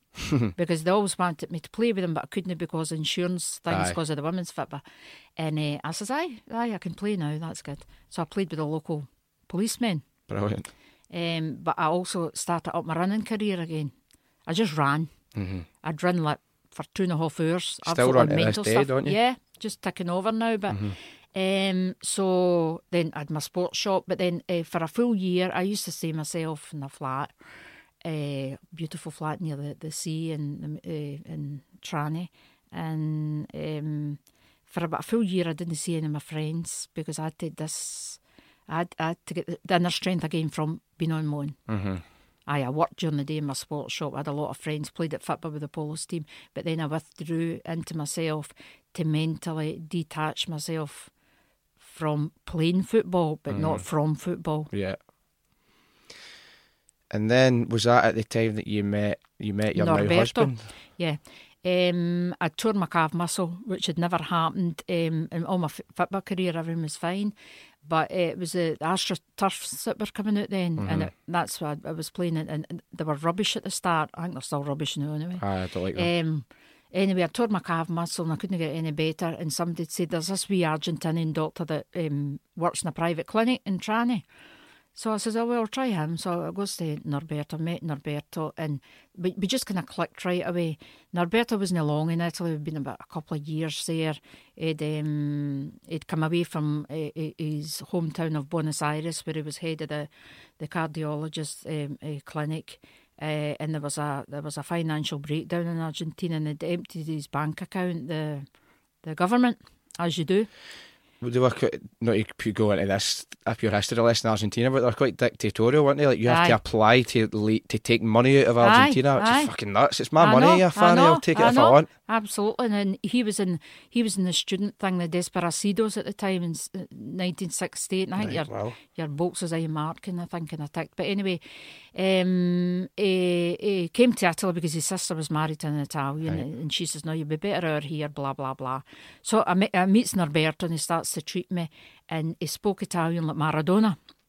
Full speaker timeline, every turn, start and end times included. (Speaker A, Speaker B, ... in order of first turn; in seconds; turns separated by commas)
Speaker A: 0.5-4.8, Speaker B: 3.7-4.0, Speaker A: 5.4-10.0, Speaker B: 10.3-10.7, Speaker A: 11.1-13.9, Speaker A: 14.4-15.1, Speaker B: 15.3-15.7, Speaker A: 15.8-27.3, Speaker B: 17.9-19.2, Speaker A: 28.0-41.6, Speaker B: 41.7-42.0, Speaker A: 42.5-51.1, Speaker A: 51.8-54.7, Speaker B: 53.5-53.8, Speaker B: 54.7-55.0, Speaker B: 57.1-60.7, Speaker A: 59.7-67.3, Speaker A: 67.8-75.4, Speaker B: 70.8-71.1, Speaker B: 75.4-76.1, Speaker A: 75.9-84.2, Speaker A: 85.0-108.5, Speaker A: 109.0-110.5, Speaker B: 111.2-121.9, Speaker A: 116.3-116.6, Speaker A: 118.6-119.5, Speaker A: 120.2-131.4, Speaker B: 128.2-128.8, Speaker A: 131.9-144.0